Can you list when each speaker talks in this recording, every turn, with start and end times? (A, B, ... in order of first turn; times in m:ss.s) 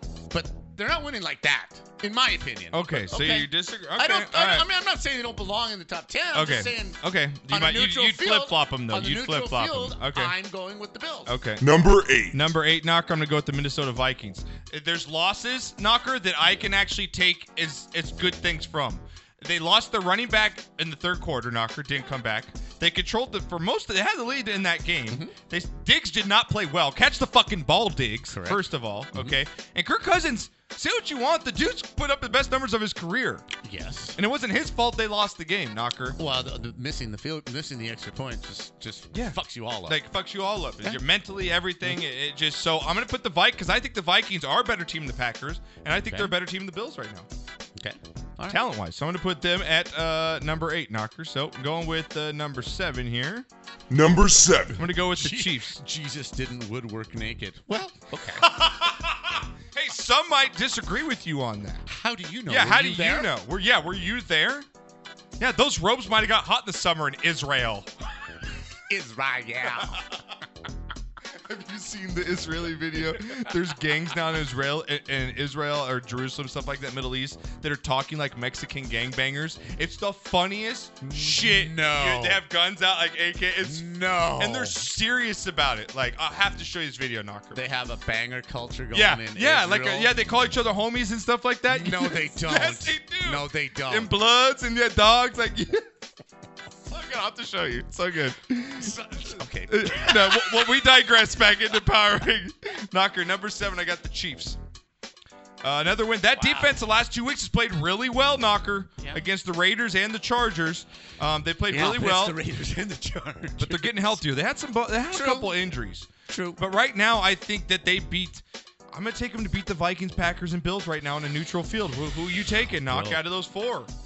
0:00.3-0:11.3 A
0:02.7-0:04.7 B
0:06.3-0:10.3 B
0:11.3-0:11.7 B
0:11.6-0:12.5 C
0:12.3-0:33.4 B
0:25.1-0:25.3 A
0:28.3-0:29.4 A
0:33.6-0:34.2 A
0:34.2-0:36.2 B
0:36.2-0:40.0 A
0:39.1-0:47.3 B
0:46.0-0:46.3 A
0:47.8-0:48.6 A
0:48.5-0:53.5 B
0:53.9-0:54.9 C
0:54.7-0:55.8 B
0:55.1-0:58.5 A
0:58.4-1:01.8 B
1:01.8-1:03.3 A
1:02.5-1:04.7 B
1:05.4-1:07.9 B
1:08.9-1:10.0 A
1:11.3-1:23.8 B
1:21.0-1:22.4 A
1:23.6-1:24.8 A
1:24.4-1:27.6 B
1:27.5-1:30.1 A
1:28.9-1:35.8 B
1:31.7-1:34.1 A
1:36.9-1:44.6 B
1:38.8-1:40.7 A
1:45.6-1:52.4 B
1:46.4-1:46.8 A
1:51.7-1:54.2 A
1:53.6-2:03.9 B
1:55.1-1:55.6 A
1:56.3-1:56.6 A
2:02.6-2:03.2 A